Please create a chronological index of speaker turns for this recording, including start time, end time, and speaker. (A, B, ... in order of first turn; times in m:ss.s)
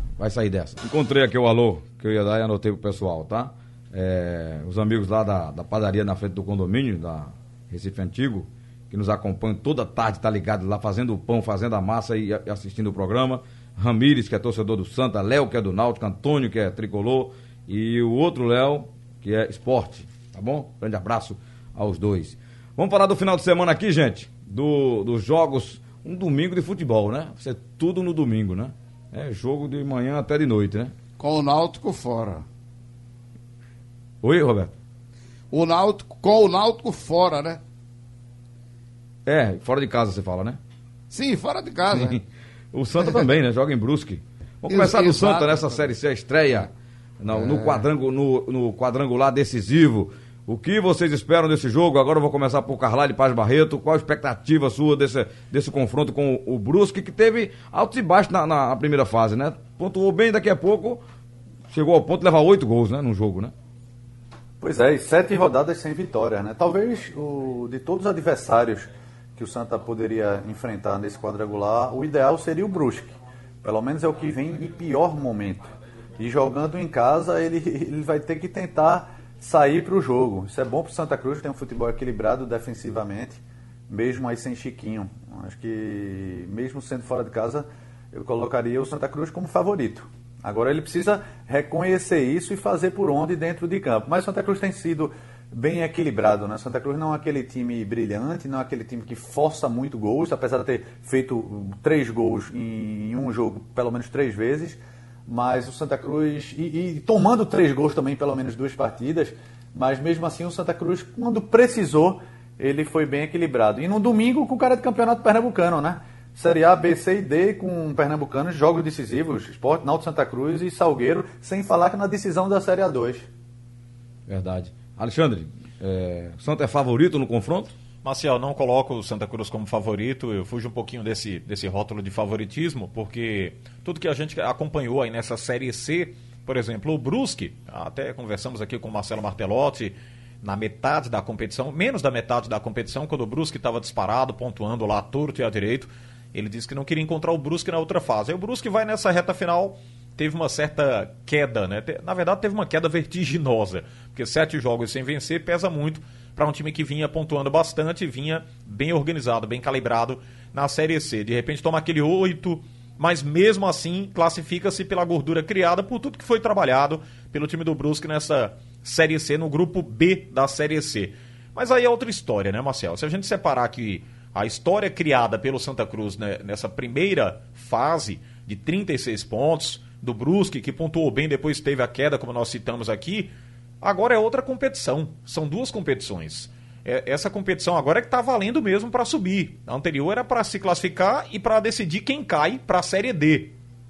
0:00.2-0:30.9 A
0:31.2-0:32.4 B
0:34.2-0:34.7 A
0:35.5-0:37.6 B
0:39.2-0:40.6 A
0:41.1-0:42.2 B
0:41.9-1:01.0 A
0:44.7-0:45.8 B
0:47.3-0:47.8 B
1:01.7-1:03.5 A
1:04.6-1:15.7 C
1:16.2-2:03.2 C
2:04.3-2:07.7 A
2:08.0-3:13.5 D